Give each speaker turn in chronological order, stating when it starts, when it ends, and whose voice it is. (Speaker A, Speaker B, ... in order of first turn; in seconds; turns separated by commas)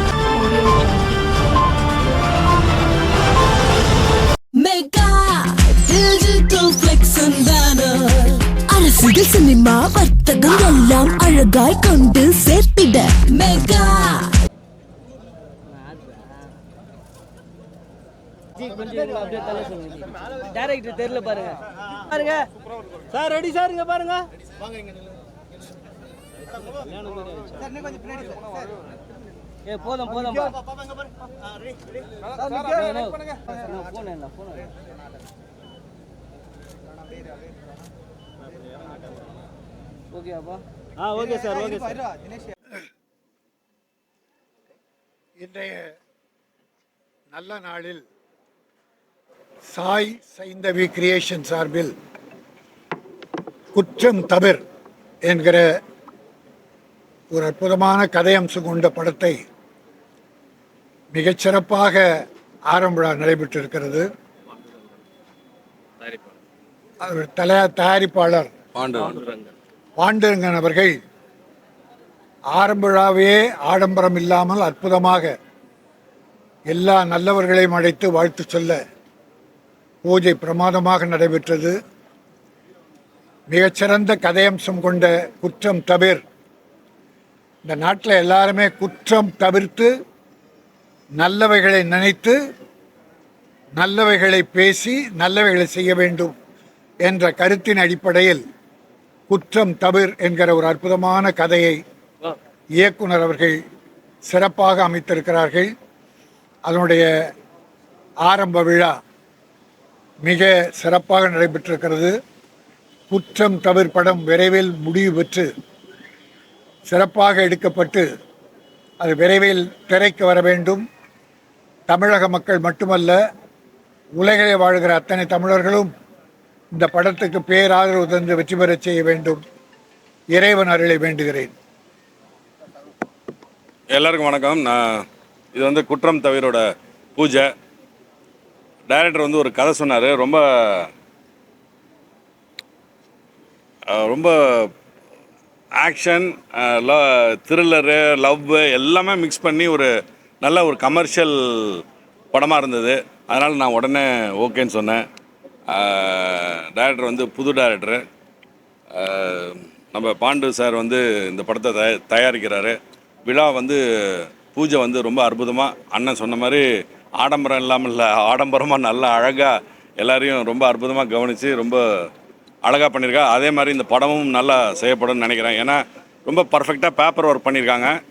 Speaker A: 0.3-0.9, Speaker A: 4.5-14.4, Speaker B: 18.7-22.5, Speaker C: 23.1-24.3, Speaker C: 27.1-27.7, Speaker B: 29.6-30.6, Speaker B: 32.4-34.7, Speaker B: 40.1-40.6, Speaker C: 41.0-42.0, Speaker D: 45.4-46.0, Speaker D: 47.3-48.0, Speaker D: 49.7-51.9, Speaker D: 53.7-54.6, Speaker D: 55.2-55.7, Speaker D: 57.3-59.4, Speaker D: 61.1-62.0, Speaker D: 62.7-64.1, Speaker D: 67.0-68.5, Speaker E: 68.7-69.5, Speaker D: 70.0-71.0, Speaker D: 72.5-75.3, Speaker D: 76.7-78.8, Speaker D: 80.0-81.8, Speaker D: 83.5-86.2, Speaker D: 87.6-89.9, Speaker D: 91.2-92.4, Speaker D: 93.8-96.3, Speaker D: 97.0-98.4, Speaker D: 99.3-101.8, Speaker D: 102.8-103.6, Speaker D: 104.3-105.7, Speaker D: 106.7-107.1, Speaker D: 108.2-108.9, Speaker D: 110.2-112.1, Speaker D: 113.1-115.5, Speaker D: 116.9-118.1, Speaker D: 119.0-120.8, Speaker D: 121.9-123.2, Speaker D: 124.2-125.9, Speaker D: 126.7-129.4, Speaker D: 130.3-131.5, Speaker E: 133.9-136.6, Speaker E: 137.2-137.5, Speaker E: 138.9-140.9, Speaker E: 143.9-144.7, Speaker E: 145.8-149.9, Speaker E: 150.4-155.0, Speaker E: 155.7-158.0, Speaker E: 158.9-166.6, Speaker E: 167.2-172.0, Speaker E: 172.6-177.9